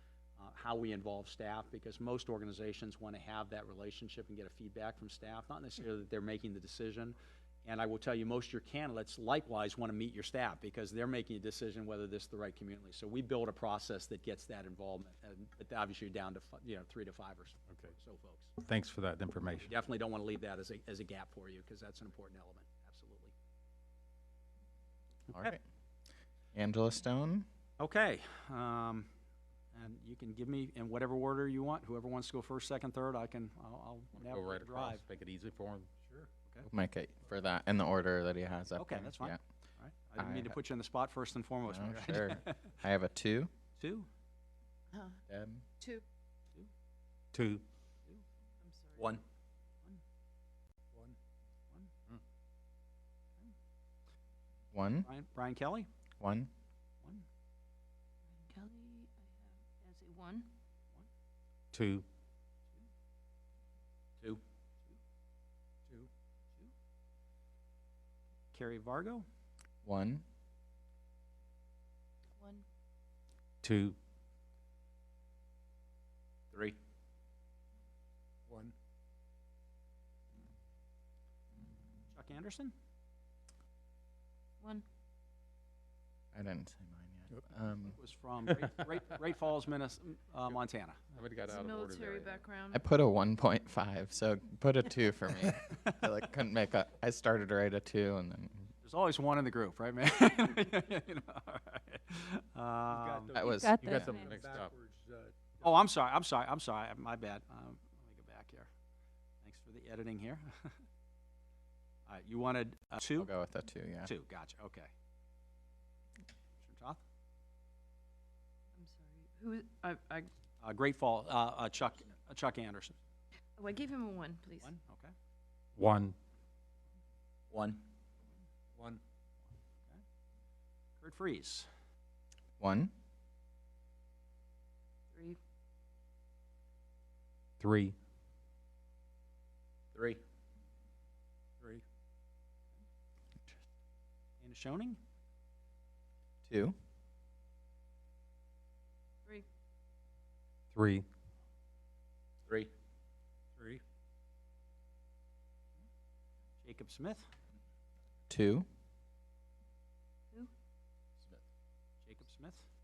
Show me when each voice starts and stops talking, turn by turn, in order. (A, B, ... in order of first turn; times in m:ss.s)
0:00.4-0:18.5 A
0:18.6-0:19.7 B
0:19.6-0:23.3 A
0:25.3-0:25.6 C
0:26.5-0:27.5 C
0:27.8-0:29.1 A
0:29.7-0:35.0 A
0:34.1-0:35.9 B
0:36.7-0:39.4 C
0:38.7-0:42.7 A
0:40.2-0:40.6 C
0:41.7-0:43.5 C
0:43.8-0:44.1 A
0:44.9-0:45.2 D
0:45.3-0:45.6 C
0:47.3-0:47.6 B
0:48.6-0:49.2 D
0:54.7-0:55.1 C
0:55.0-0:55.9 A
0:56.2-0:56.5 C
0:58.3-1:00.5 D
1:01.7-1:02.1 B
1:04.2-1:05.0 A
1:08.5-1:09.3 A
1:09.8-1:10.2 C
1:12.4-1:12.6 D
1:13.6-1:14.0 B
1:18.5-1:18.8 E
1:22.1-1:22.7 A
1:24.6-1:24.8 D
1:26.3-1:28.0 C
1:27.9-1:31.0 A
1:31.1-1:32.4 B
1:31.5-1:32.8 D
1:32.7-1:38.7 C
1:38.8-1:43.3 A
1:42.9-1:45.7 E
1:43.4-1:44.2 C
1:43.8-1:44.7 B
1:45.6-1:48.7 A
1:49.4-1:50.8 A
1:52.1-1:53.3 A
1:53.2-1:54.1 C
1:54.0-1:54.9 A
1:56.6-1:57.0 A
1:58.8-2:00.3 D
2:00.6-2:03.0 A
2:03.6-2:04.7 D
2:04.6-2:05.1 A
2:05.8-2:06.2 B
2:07.5-2:07.8 E
2:08.8-2:09.0 E
2:11.0-2:11.7 A
2:12.6-2:12.9 C
2:15.1-2:15.4 D
2:17.6-2:18.0 B
2:24.4-2:25.0 A
2:26.4-2:26.8 C
2:30.7-2:31.1 B
2:33.6-2:33.8 E
2:36.6-2:37.3 A
2:38.3-2:38.7 C
2:42.0-2:42.7 A